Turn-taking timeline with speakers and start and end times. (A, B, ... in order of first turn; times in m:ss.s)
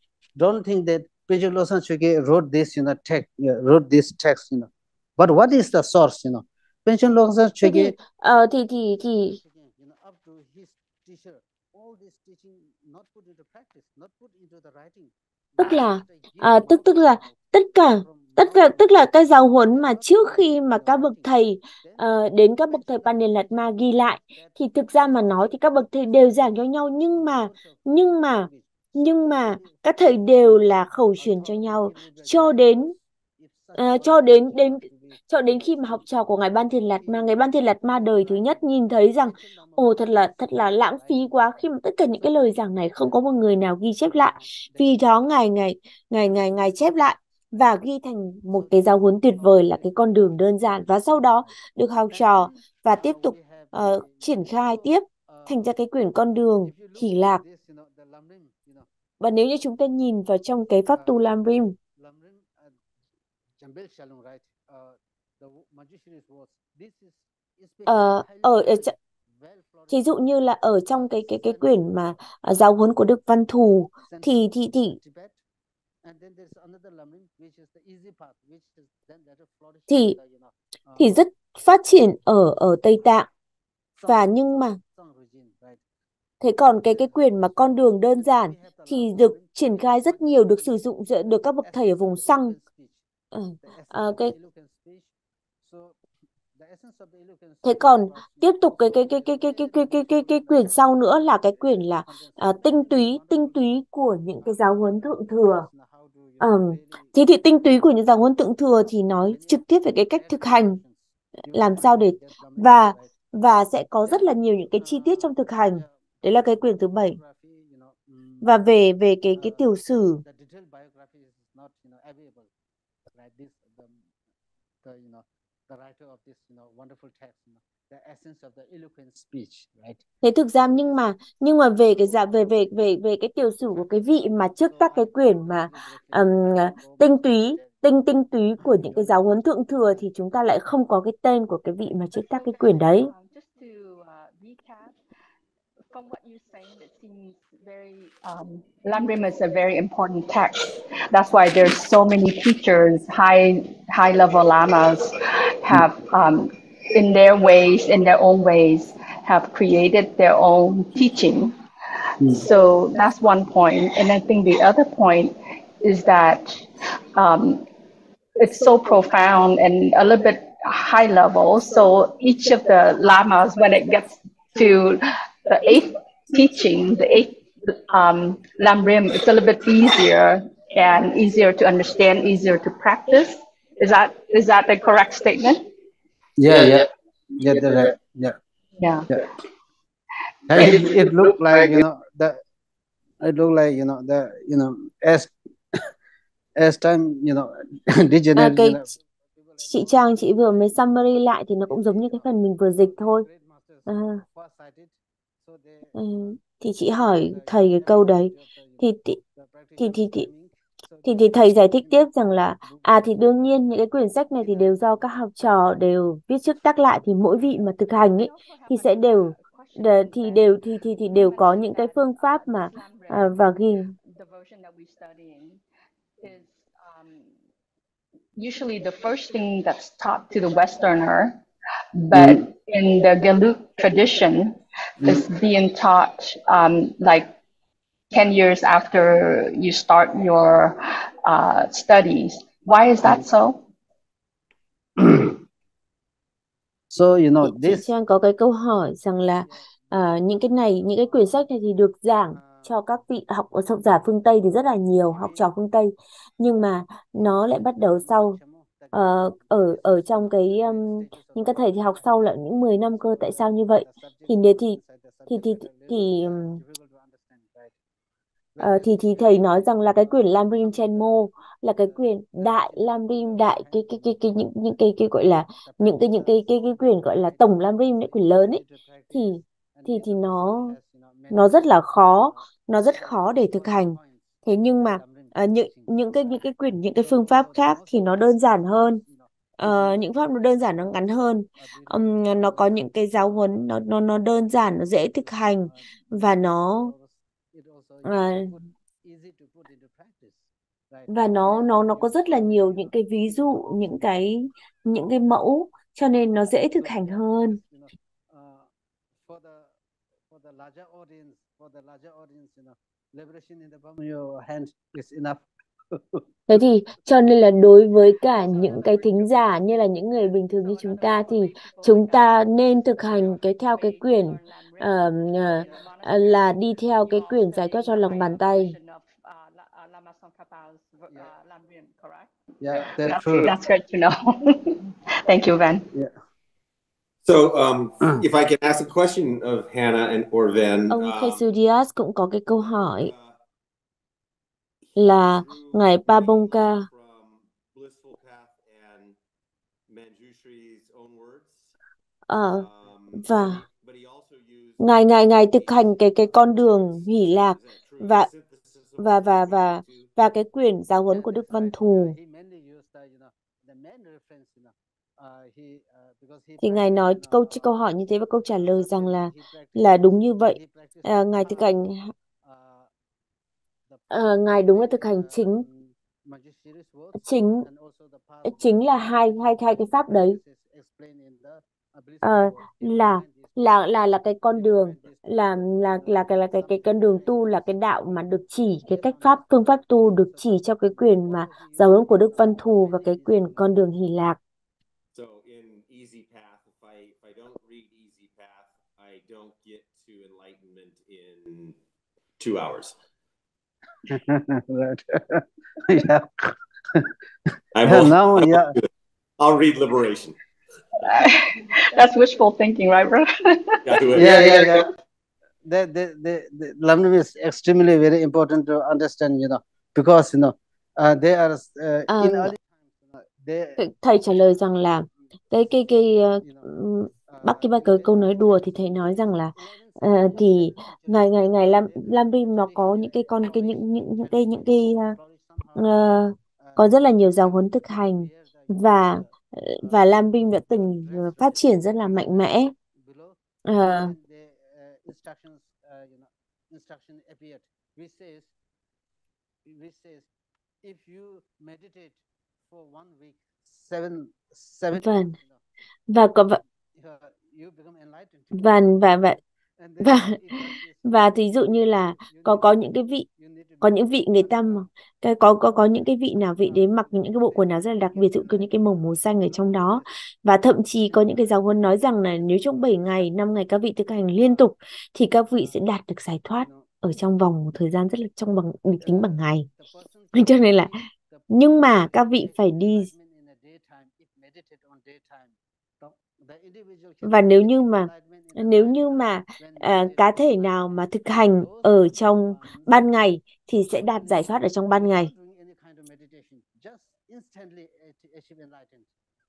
0:00.4-0:07.9 A
0:07.6-0:09.4 B
0:09.4-0:15.7 A
0:15.6-0:32.9 B
0:33.7-0:57.4 B
0:56.7-0:58.8 A
0:59.2-1:01.8 B
1:02.0-1:02.7 A
1:03.6-1:07.8 A
1:07.9-1:08.9 B
1:09.9-1:15.0 B
1:14.1-1:14.4 A
1:15.0-1:15.4 A
1:16.0-1:20.5 A
1:19.9-1:20.2 B
1:21.0-1:23.3 B
1:24.0-1:25.8 A
1:24.1-1:24.8 B
1:26.4-1:32.6 B
1:28.6-1:28.9 A
1:32.0-1:32.9 A
1:33.3-1:34.4 B
1:33.6-1:35.1 A
1:35.6-1:35.9 A
1:36.6-1:38.4 A
1:37.6-1:45.7 B
1:45.7-1:46.1 A
1:46.4-1:50.8 B
1:50.2-1:50.9 A
1:51.5-1:52.7 A
1:51.5-1:57.2 B
1:57.1-1:58.4 A
1:58.4-2:00.2 B
2:00.2-2:02.5 A
2:03.1-2:03.9 A
2:04.8-2:10.0 A
2:10.2-2:23.1 B
2:22.1-2:24.9 C
2:25.9-2:41.6 C
2:42.3-2:47.6 C
2:48.4-3:05.7 C
3:06.4-3:06.9 A
3:07.4-3:08.4 A
3:08.8-3:09.1 C
3:10.5-3:12.4 A
3:10.6-3:10.9 C
3:13.2-3:15.3 A
3:16.6-3:18.9 A
3:18.4-3:18.8 B
3:19.6-3:23.3 B
3:23.2-3:24.9 A
3:23.9-3:24.2 B
3:25.5-3:25.9 A
3:25.9-3:29.2 B
3:29.8-3:30.4 A
3:29.8-3:30.3 B
3:31.0-3:43.9 B
3:38.2-3:40.4 C
3:41.2-3:43.2 C
3:44.1-3:45.6 C
3:46.2-3:47.3 C
3:48.4-3:51.4 C
3:52.0-3:57.3 C
3:52.1-3:52.4 A
3:58.1-4:03.6 C
4:05.0-4:05.4 A
4:06.9-4:07.8 A
4:07.4-4:18.4 B
4:18.9-4:26.6 B
4:25.6-4:25.9 A
4:26.6-4:27.7 A
4:28.6-4:40.8 B
4:41.3-4:49.0 B
4:49.6-4:56.9 B
4:58.0-4:58.5 B
4:59.1-5:00.3 A
5:01.1-5:07.6 B
5:08.3-5:08.6 A
5:09.3-5:09.6 A
5:10.3-5:16.2 A
5:16.5-5:28.7 B
5:20.7-5:22.4 C
5:23.1-5:24.9 C
5:25.5-5:26.6 C
5:27.1-5:32.3 C
5:32.6-5:33.5 A
5:32.8-5:35.9 C
5:37.2-5:41.4 D
5:40.9-5:43.1 B
5:42.6-5:43.4 D
5:44.9-5:49.2 D
5:45.0-5:46.9 B
5:49.9-5:51.7 D
5:52.3-5:53.6 B
5:52.4-6:00.1 D
5:54.8-5:58.3 B
5:59.0-6:02.2 B
6:02.4-6:03.3 A
6:06.6-6:12.1 B
6:14.1-6:15.7 B
6:17.2-6:17.7 B
6:18.4-6:20.4 B
6:20.8-6:21.5 A
6:22.2-6:34.4 B
6:35.1-6:41.8 D
6:42.4-6:43.0 D
6:44.1-6:47.1 A
6:47.7-6:48.9 D
6:47.8-6:48.7 A
6:49.4-6:50.4 D
6:51.0-6:54.7 C
6:53.8-6:54.5 D
6:54.1-6:54.9 A
6:55.7-7:02.6 A
7:02.1-7:02.5 B
7:03.3-7:03.8 A
7:03.8-7:15.2 B
7:15.8-7:22.7 B
7:23.7-7:24.2 B
7:25.0-7:28.4 A
7:29.7-7:30.2 A
7:30.8-7:32.1 A
7:32.7-7:35.0 A
7:35.0-7:35.4 B
7:36.1-7:36.6 B
7:37.1-7:38.1 A
7:38.5-7:39.4 B
7:40.0-7:43.3 B
7:43.8-7:59.7 B
8:00.3-8:01.0 B
8:01.5-8:03.1 B
8:07.2-8:15.3 B
8:15.4-8:19.0 A